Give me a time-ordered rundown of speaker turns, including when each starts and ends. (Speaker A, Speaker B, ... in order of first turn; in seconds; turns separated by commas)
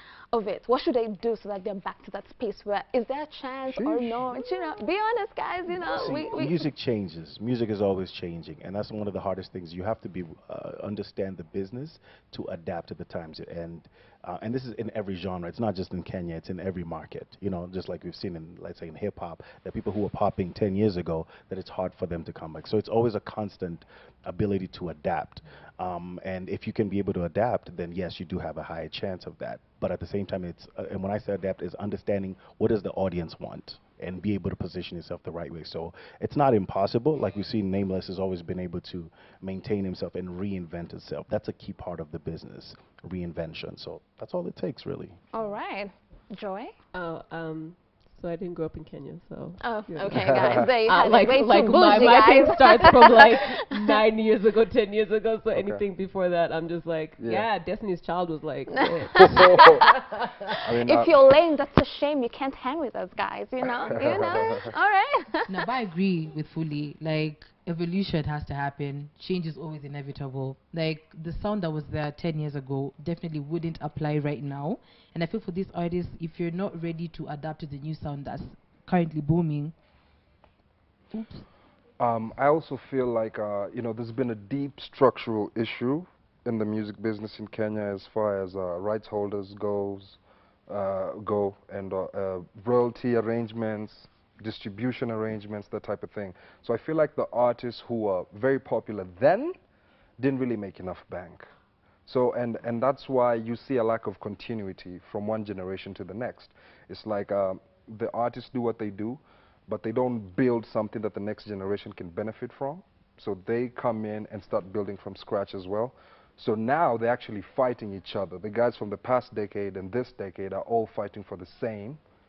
Speaker A: 0.3-6.7, Speaker B: 3.7-4.3, Speaker C: 5.8-45.2, Speaker A: 45.3-46.7, Speaker D: 46.9-59.8, Speaker A: 49.6-53.7, Speaker B: 50.1-50.7, Speaker B: 55.5-55.8, Speaker B: 57.2-57.5, Speaker A: 58.8-59.6, Speaker B: 59.1-60.0, Speaker B: 60.5-61.2, Speaker A: 60.8-65.5, Speaker B: 63.9-64.7, Speaker E: 65.5-79.7, Speaker E: 81.1-81.4, Speaker B: 82.0-99.5, Speaker B: 100.2-101.5, Speaker B: 102.0-122.0